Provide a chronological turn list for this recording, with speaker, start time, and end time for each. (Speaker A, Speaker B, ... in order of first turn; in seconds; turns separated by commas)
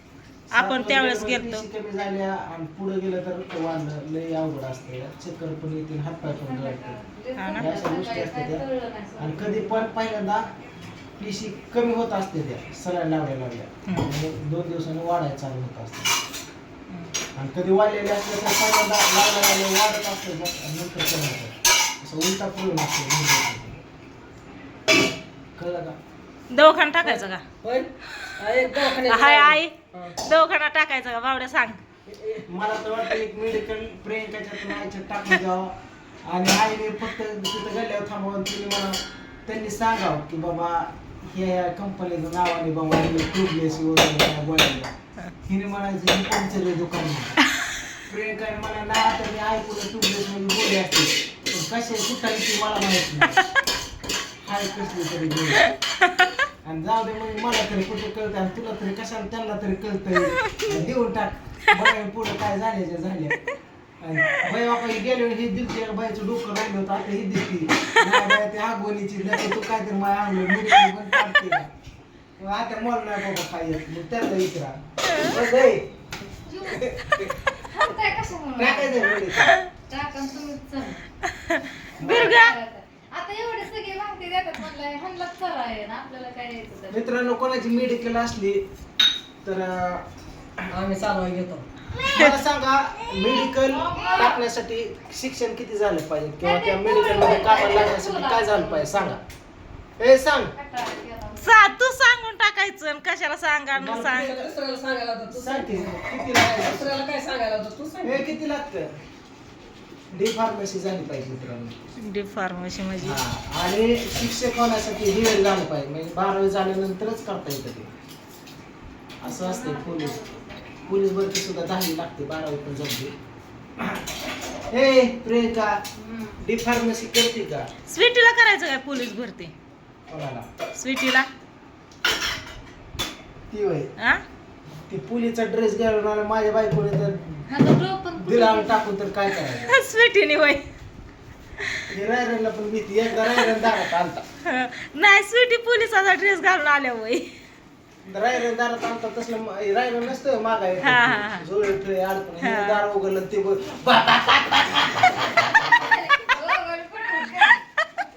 Speaker A: 0.5-7.0, Speaker B: 0.5-1.6, Speaker C: 6.2-9.9, Speaker B: 7.3-7.7, Speaker A: 7.6-8.6, Speaker A: 9.2-10.5, Speaker A: 11.2-16.1, Speaker A: 17.4-23.8, Speaker A: 25.6-25.9, Speaker B: 26.5-27.4, Speaker D: 27.6-30.1, Speaker B: 28.9-31.8, Speaker D: 32.1-32.4, Speaker A: 32.5-35.7, Speaker A: 36.2-44.9, Speaker A: 45.5-47.4, Speaker A: 48.1-53.4, Speaker A: 54.4-55.7, Speaker A: 56.6-63.4, Speaker A: 64.0-71.7, Speaker A: 72.4-75.9, Speaker C: 76.5-76.9, Speaker A: 76.7-77.5, Speaker C: 77.5-79.1, Speaker A: 78.6-79.5, Speaker C: 79.8-81.0, Speaker B: 81.3-82.5, Speaker C: 82.0-87.0, Speaker A: 82.0-82.4, Speaker A: 86.9-88.6, Speaker A: 89.4-90.0, Speaker D: 90.7-91.6, Speaker B: 92.0-92.4, Speaker A: 92.1-99.2, Speaker C: 93.7-94.4, Speaker C: 96.4-99.2, Speaker A: 100.0-100.5, Speaker C: 100.5-101.5, Speaker B: 101.4-104.4, Speaker A: 103.8-104.5, Speaker D: 104.2-108.3, Speaker A: 105.3-107.0, Speaker A: 108.0-108.9, Speaker A: 110.1-111.7, Speaker B: 112.0-113.2, Speaker A: 113.0-117.9, Speaker A: 119.2-120.2, Speaker C: 119.2-120.8, Speaker A: 120.8-123.1, Speaker A: 124.7-125.8, Speaker C: 126.0-126.4, Speaker A: 126.4-127.7, Speaker B: 127.9-129.5, Speaker A: 130.1-130.5, Speaker B: 130.8-131.3, Speaker A: 133.5-133.9, Speaker B: 134.0-134.2, Speaker A: 134.9-137.4, Speaker C: 137.5-138.8, Speaker A: 138.2-139.8, Speaker B: 139.5-140.6, Speaker A: 141.9-144.2, Speaker B: 144.4-147.3, Speaker A: 148.0-155.3, Speaker B: 150.8-151.4, Speaker B: 152.4-152.8, Speaker C: 155.8-157.6